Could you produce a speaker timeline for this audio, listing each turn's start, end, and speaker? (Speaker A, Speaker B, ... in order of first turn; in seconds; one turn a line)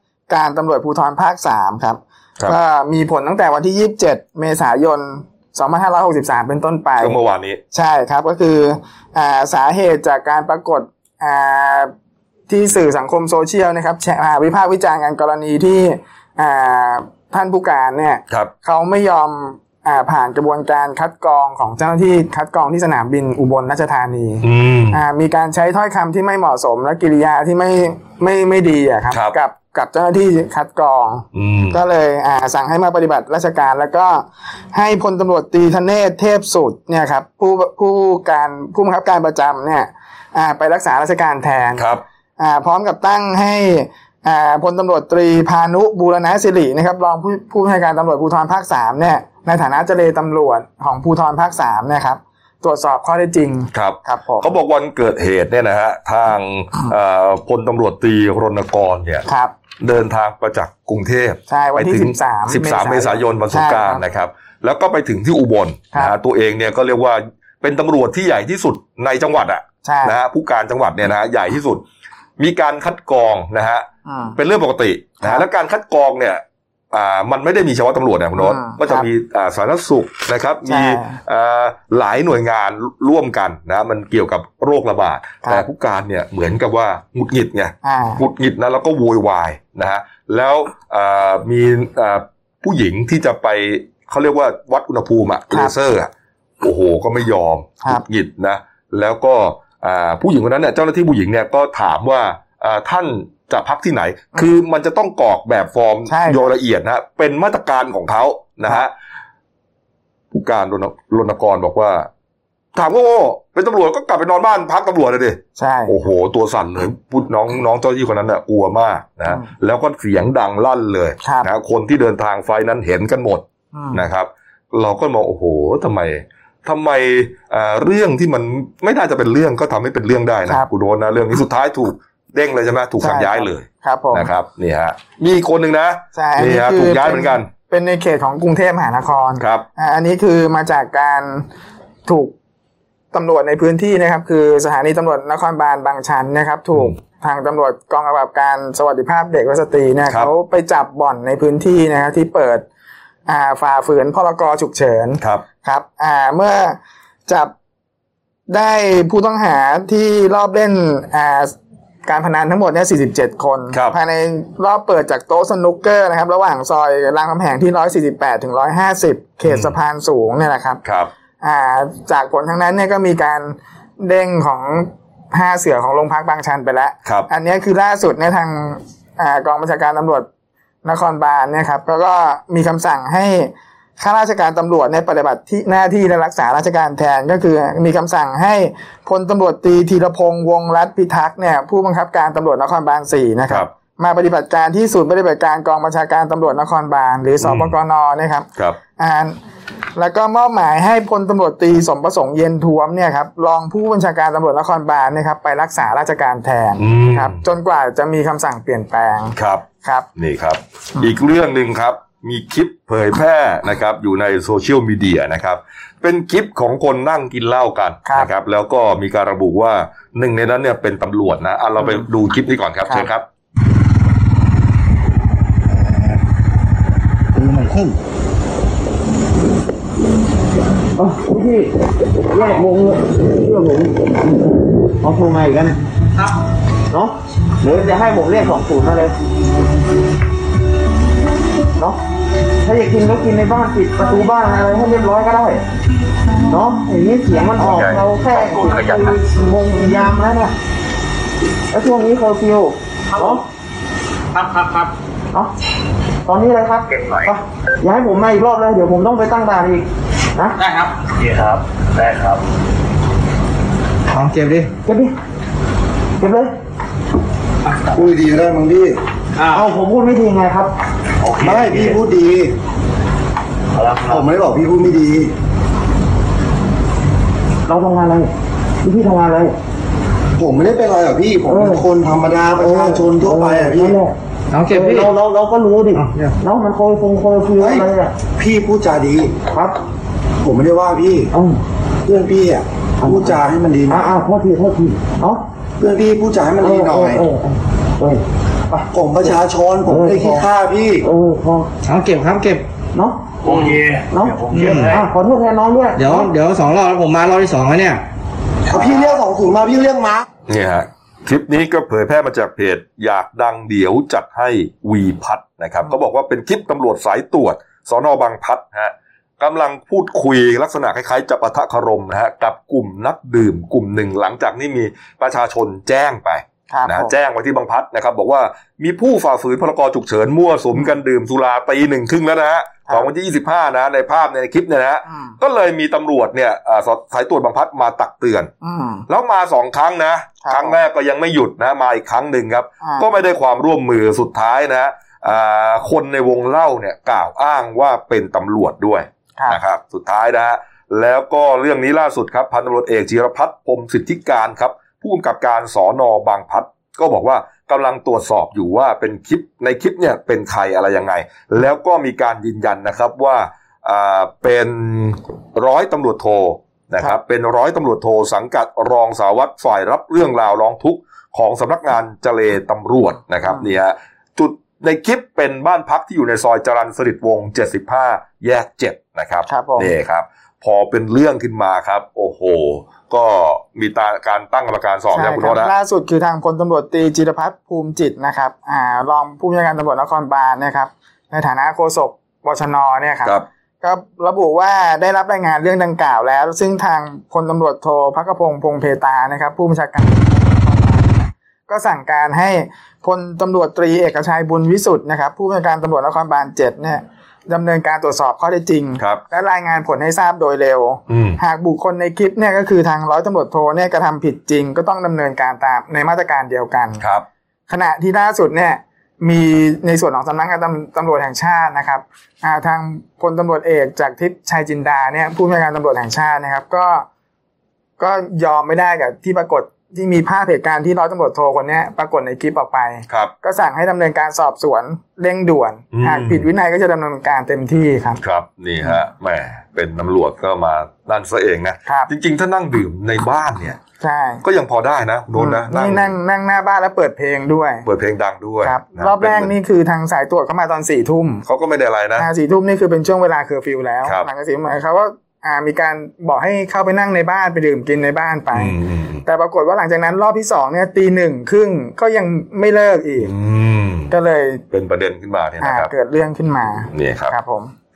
Speaker A: 0.3-7.2
Speaker B: 7.0-7.6
Speaker A: 7.7-11.9
Speaker A: 12.5-54.5
Speaker B: 24.4-25.0
Speaker B: 29.1-29.4
Speaker B: 31.3-31.8
Speaker B: 41.8-42.0
Speaker B: 53.7-59.3
Speaker A: 59.3-59.5
Speaker B: 59.8-71.8
Speaker A: 61.5-64.0
Speaker A: 69.8-70.2
Speaker B: 72.4-96.1
Speaker A: 74.0-74.3
Speaker A: 78.3-79.1
Speaker A: 80.7-81.2
Speaker A: 87.8-88.2
Speaker B: 96.6-108.9
Speaker A: 106.1-106.5
Speaker B: 110.3-112.1
Speaker B: 112.7-137.5
Speaker A: 115.6-116.0
Speaker A: 123.7-124.0
Speaker A: 133.0-134.3
Speaker A: 136.1-141.4
Speaker B: 139.4-139.7
Speaker A: 142.1-142.3
Speaker A: 143.1-152.7
Speaker A: 153.3-157.5
Speaker B: 155.2-155.4
Speaker A: 158.5-161.5
Speaker A: 162.1-170.8
Speaker B: 163.7-164.0
Speaker B: 169.5-169.8
Speaker B: 170.8-171.1
Speaker A: 171.4-180.3
Speaker A: 180.8-199.3
Speaker B: 197.4-197.8
Speaker A: 199.9-210.1
Speaker B: 206.8-207.4
Speaker B: 209.3-209.6
Speaker B: 210.2-223.2
Speaker A: 221.8-222.0
Speaker C: 227.4-227.9
Speaker D: 230.9-231.7
Speaker D: 232.3-234.2
Speaker D: 235.0-235.8
Speaker D: 236.9-239.1
Speaker D: 242.6-245.6
Speaker D: 246.4-250.5
Speaker E: 247.6-249.1
Speaker D: 251.7-253.4
Speaker E: 253.1-253.4
Speaker E: 254.3-254.9
Speaker D: 256.2-260.6
Speaker E: 256.9-257.3
Speaker E: 260.6-262.4
Speaker F: 264.1-264.7
Speaker D: 264.8-265.1
Speaker D: 266.2-266.5
Speaker C: 267.9-269.0
Speaker E: 269.4-269.7
Speaker D: 269.5-270.7
Speaker E: 271.2-272.0
Speaker C: 271.4-272.5
Speaker E: 273.7-274.3
Speaker C: 274.1-275.3
Speaker D: 277.7-278.3
Speaker D: 278.8-279.5
Speaker C: 280.4-284.0
Speaker D: 281.5-281.9
Speaker D: 282.6-284.1
Speaker F: 284.5-285.1
Speaker D: 284.7-288.1
Speaker F: 285.9-286.4
Speaker C: 287.6-289.3
Speaker D: 289.5-289.8
Speaker C: 290.4-291.3
Speaker D: 291.3-291.6
Speaker C: 292.0-294.0
Speaker D: 293.0-293.4
Speaker D: 293.9-295.4
Speaker C: 295.8-297.2
Speaker D: 296.6-300.5
Speaker C: 298.9-301.1
Speaker D: 301.0-301.7
Speaker F: 301.8-302.6
Speaker D: 302.9-306.3
Speaker E: 303.4-305.1
Speaker F: 304.5-305.0
Speaker F: 305.9-308.0
Speaker C: 308.7-310.2
Speaker B: 310.5-338.5
Speaker A: 326.7-327.1
Speaker A: 335.1-335.4
Speaker A: 338.6-339.1
Speaker B: 339.1-385.7
Speaker A: 340.4-340.8
Speaker A: 379.5-379.9
Speaker A: 385.1-417.0
Speaker B: 411.1-411.4
Speaker B: 417.0-417.2
Speaker A: 417.7-427.1
Speaker A: 428.0-438.2
Speaker B: 435.9-436.5
Speaker B: 438.2-443.8
Speaker A: 444.0-444.4
Speaker B: 444.4-446.1
Speaker A: 445.3-447.9
Speaker B: 447.8-449.5
Speaker A: 448.6-451.4
Speaker B: 451.4-452.3
Speaker A: 452.2-463.3
Speaker B: 458.5-459.2
Speaker B: 463.2-464.1
Speaker A: 464.1-464.6
Speaker B: 464.7-465.9
Speaker A: 465.6-467.7
Speaker B: 466.9-467.4